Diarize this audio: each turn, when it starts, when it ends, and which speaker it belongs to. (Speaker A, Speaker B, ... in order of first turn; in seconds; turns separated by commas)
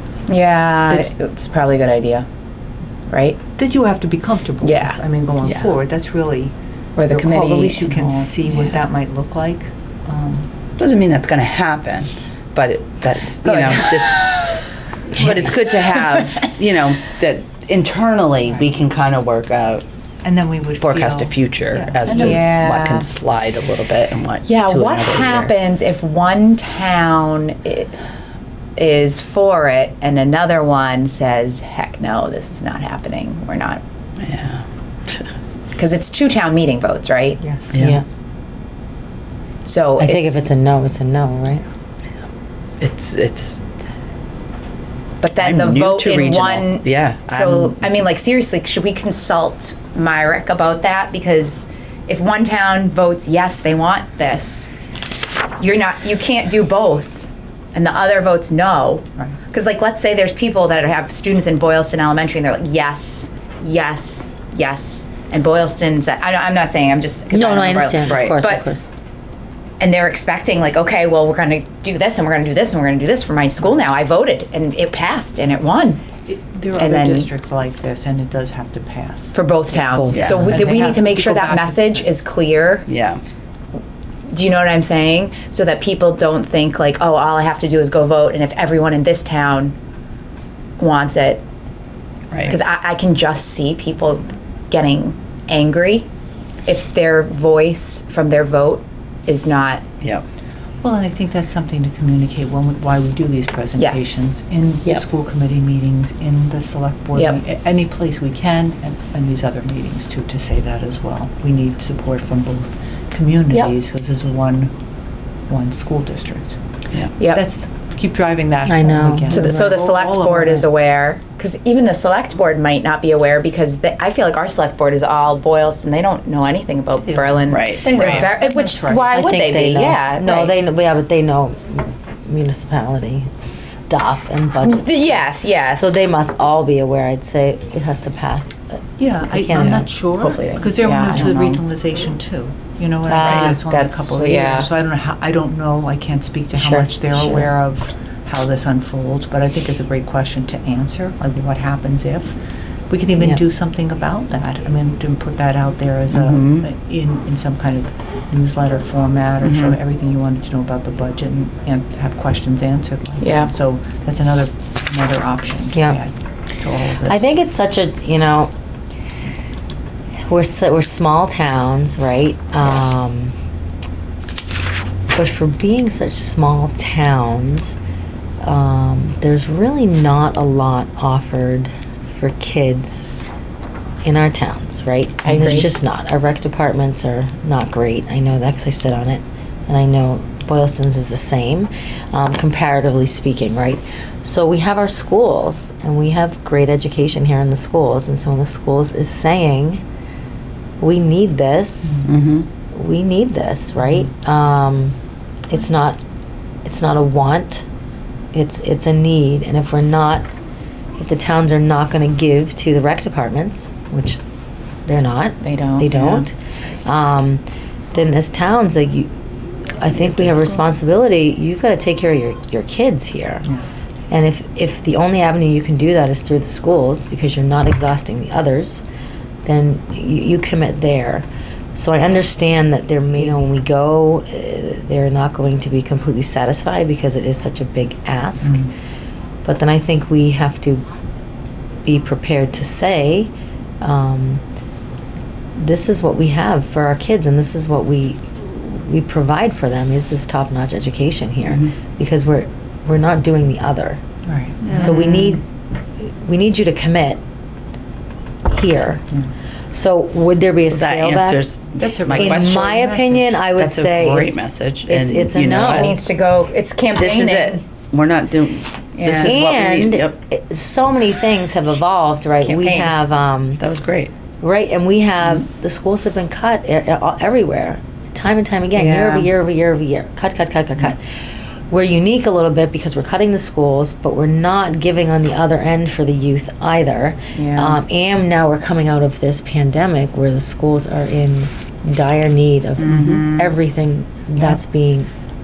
Speaker A: 0.3-2.2, Speaker A: 3.1-3.4, Speaker B: 3.5-6.5, Speaker A: 4.6-5.0, Speaker C: 5.4-5.7, Speaker A: 7.0-8.1, Speaker B: 7.1-10.5, Speaker C: 10.8-19.8, Speaker A: 13.4-14.0, Speaker B: 15.1-15.9, Speaker B: 20.2-22.4, Speaker C: 20.8-25.5, Speaker A: 22.1-23.1, Speaker A: 24.4-27.9, Speaker A: 28.8-33.8, Speaker C: 34.2-35.3, Speaker A: 35.8-37.4, Speaker B: 37.4-37.8, Speaker C: 37.7-38.0, Speaker D: 37.8-38.0, Speaker A: 39.6-40.4, Speaker D: 40.0-41.6, Speaker C: 42.8-43.6, Speaker A: 45.2-54.7, Speaker C: 45.4-47.8, Speaker A: 55.6-68.6, Speaker D: 67.3-68.9, Speaker C: 68.1-68.4, Speaker A: 69.8-76.0, Speaker B: 76.2-79.3, Speaker A: 76.8-77.3, Speaker A: 79.3-82.8, Speaker D: 79.9-80.9, Speaker C: 80.1-80.6, Speaker B: 80.4-82.1, Speaker C: 82.9-83.2, Speaker A: 84.3-89.7, Speaker A: 90.8-91.4, Speaker C: 92.3-92.5, Speaker A: 92.4-96.0, Speaker A: 96.7-99.8, Speaker B: 100.8-114.7, Speaker A: 103.8-104.3, Speaker B: 115.5-116.6, Speaker B: 117.3-120.7, Speaker D: 118.6-119.7, Speaker A: 119.3-130.6, Speaker B: 127.0-129.3, Speaker C: 127.5-128.3, Speaker D: 129.1-138.6, Speaker A: 134.6-136.1, Speaker B: 139.0-152.3, Speaker D: 139.3-139.9, Speaker A: 139.6-141.6, Speaker D: 143.1-143.6, Speaker A: 143.1-144.7, Speaker D: 146.5-147.5, Speaker B: 152.9-167.3, Speaker C: 156.1-156.7, Speaker A: 159.5-159.7, Speaker A: 163.2-163.5, Speaker D: 165.7-166.0, Speaker D: 167.0-168.5, Speaker D: 170.2-173.3, Speaker D: 175.1-177.8, Speaker D: 178.4-183.1, Speaker D: 184.0-199.8, Speaker A: 185.2-185.7, Speaker D: 200.8-202.1, Speaker C: 202.0-202.5, Speaker D: 202.7-204.9, Speaker D: 205.5-206.0, Speaker D: 206.6-207.6, Speaker D: 208.3-210.3, Speaker D: 210.9-214.2, Speaker D: 214.8-217.4, Speaker A: 215.4-215.9, Speaker B: 215.9-216.3, Speaker D: 217.9-219.1, Speaker D: 219.7-223.5, Speaker B: 220.1-220.6, Speaker D: 224.1-228.8, Speaker D: 229.4-238.7, Speaker B: 238.4-238.7, Speaker D: 239.4-240.8, Speaker D: 241.8-244.4, Speaker D: 245.6-254.0, Speaker B: 254.2-255.4, Speaker D: 254.7-255.4, Speaker D: 256.0-257.2, Speaker D: 258.5-259.0, Speaker D: 259.7-261.4, Speaker C: 260.7-262.7, Speaker B: 261.8-263.4, Speaker D: 262.1-266.0, Speaker C: 263.5-265.9, Speaker A: 265.5-267.6, Speaker C: 266.9-270.1, Speaker A: 268.9-269.4, Speaker D: 269.1-273.6, Speaker A: 272.4-272.9, Speaker C: 273.6-274.1, Speaker D: 274.4-281.0, Speaker A: 278.7-279.3, Speaker D: 281.7-295.1, Speaker A: 287.3-287.8, Speaker C: 292.8-293.2, Speaker A: 292.8-293.6